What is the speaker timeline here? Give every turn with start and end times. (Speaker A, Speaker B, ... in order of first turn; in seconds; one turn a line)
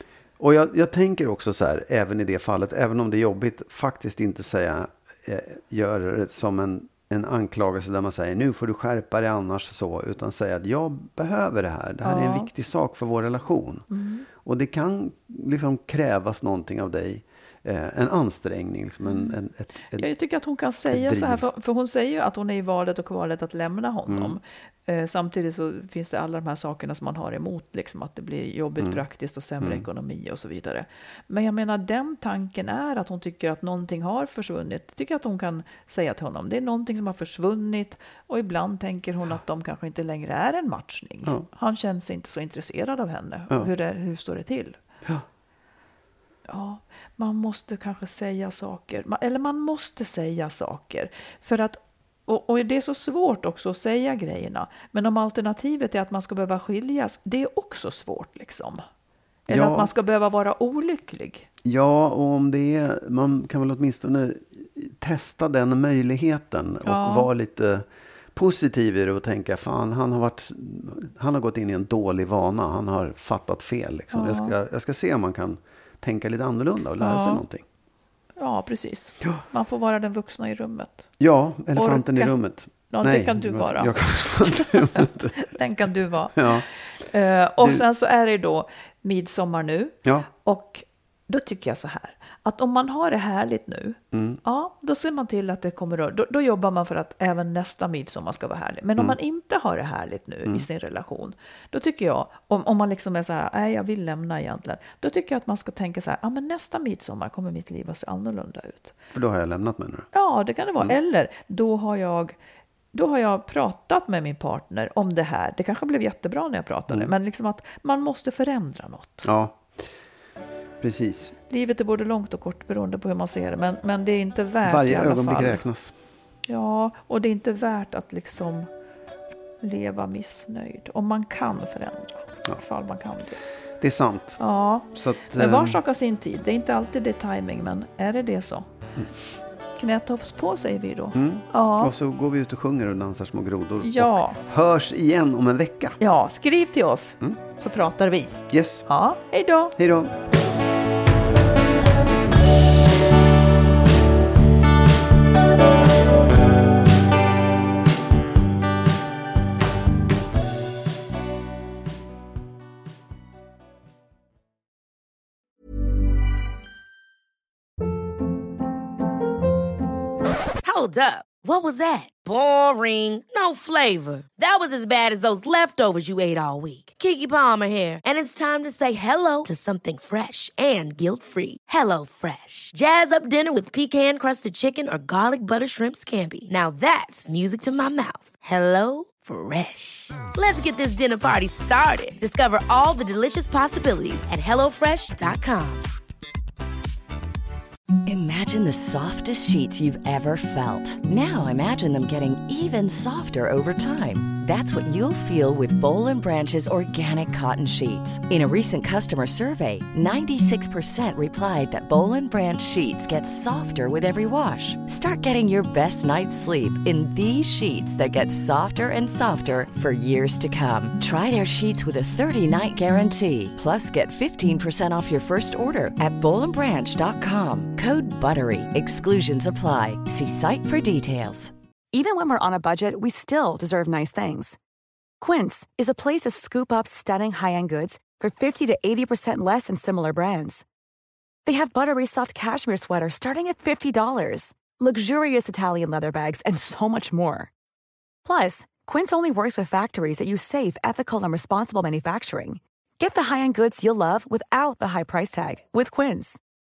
Speaker A: 0.4-13.8
Speaker B: 12.0-12.5
Speaker B: 13.9-14.2
Speaker A: 14.4-20.1
Speaker B: 19.0-19.3
Speaker B: 20.0-44.8
Speaker A: 20.9-21.4
Speaker A: 24.1-24.4
Speaker B: 46.5-58.8
Speaker B: 59.5-61.5
Speaker A: 59.5-59.9
Speaker A: 61.6-77.6
Speaker B: 66.8-67.3
Speaker B: 74.1-74.5
Speaker B: 77.0-77.4
Speaker B: 78.4-81.1
Speaker A: 81.2-85.5
Speaker B: 81.7-108.9
Speaker A: 86.3-86.6
Speaker A: 94.1-94.4
Speaker A: 109.1-110.1
Speaker B: 110.1-112.3
Speaker B: 112.9-119.3
Speaker A: 119.2-119.7
Speaker A: 120.8-121.3
Speaker B: 121.5-125.6
Speaker A: 124.6-125.9
Speaker B: 126.5-128.7
Speaker B: 129.6-133.4
Speaker A: 133.8-134.4
Speaker B: 134.4-138.7
Speaker A: 134.9-135.8
Speaker B: 139.8-141.9
Speaker A: 141.2-146.0
Speaker B: 143.8-144.4
Speaker B: 146.0-149.8
Speaker A: 148.5-148.9
Speaker A: 149.8-150.1
Speaker C: 170.6-195.9
Speaker D: 198.1-231.5
Speaker E: 231.9-234.6
Speaker E: 235.2-240.6
Speaker E: 241.4-247.5
Speaker E: 248.2-256.4